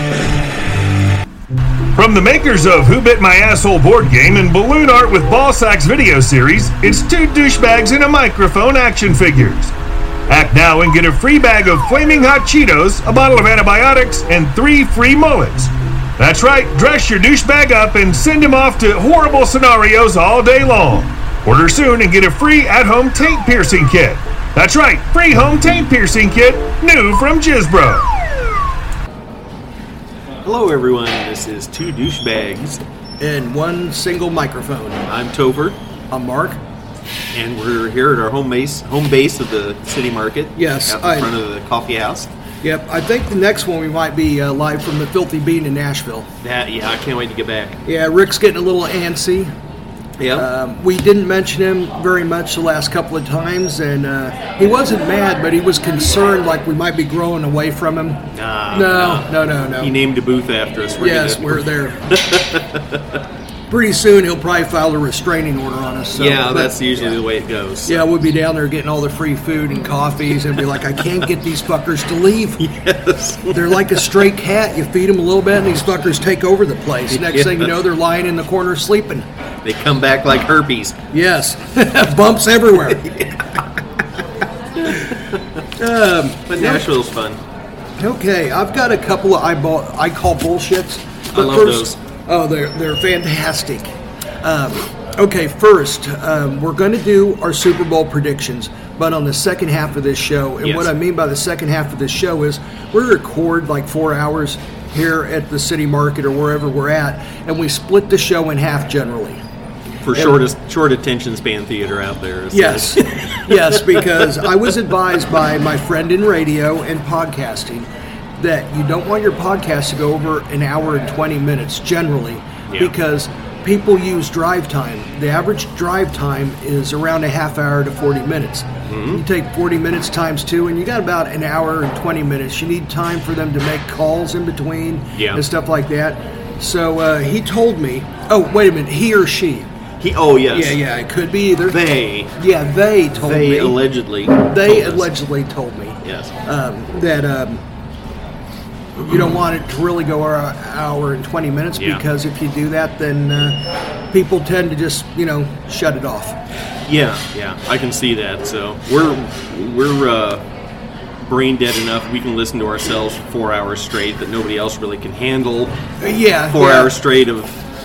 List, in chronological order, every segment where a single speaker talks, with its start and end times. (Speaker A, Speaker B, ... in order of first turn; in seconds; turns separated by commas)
Speaker A: 1.9-9.7, Speaker A: 10.3-28.1, Speaker B: 30.4-32.8, Speaker C: 33.2-35.1, Speaker B: 35.1-35.8, Speaker C: 36.1-36.6, Speaker B: 37.3-42.3, Speaker C: 40.6-41.3, Speaker C: 42.6-46.3, Speaker B: 46.4-47.8, Speaker C: 47.9-49.5, Speaker B: 50.2-50.5, Speaker C: 50.4-59.9, Speaker B: 58.3-63.2, Speaker C: 61.0-62.2, Speaker C: 63.7-66.8, Speaker B: 66.1-68.0, Speaker C: 67.9-72.7, Speaker B: 72.6-73.8, Speaker C: 73.5-79.3, Speaker B: 77.1-77.8, Speaker B: 79.6-81.0, Speaker C: 81.1-83.1, Speaker B: 82.8-83.6, Speaker B: 84.8-85.4, Speaker C: 84.9-85.1, Speaker C: 85.8-86.9, Speaker B: 86.5-87.4, Speaker C: 88.0-109.4, Speaker B: 91.3-92.0, Speaker B: 100.6-100.9, Speaker B: 110.0-114.8, Speaker C: 112.5-139.7, Speaker B: 122.7-123.0, Speaker B: 128.9-129.2, Speaker B: 135.1-135.4, Speaker B: 140.0-140.8, Speaker C: 140.5-143.8, Speaker B: 141.7-142.3, Speaker B: 143.1-145.1, Speaker C: 144.4-147.6, Speaker B: 146.0-146.3, Speaker C: 149.0-156.4, Speaker B: 151.7-152.0, Speaker B: 156.8-160.5, Speaker B: 161.2-165.8, Speaker C: 166.0-166.9, Speaker B: 166.5-167.6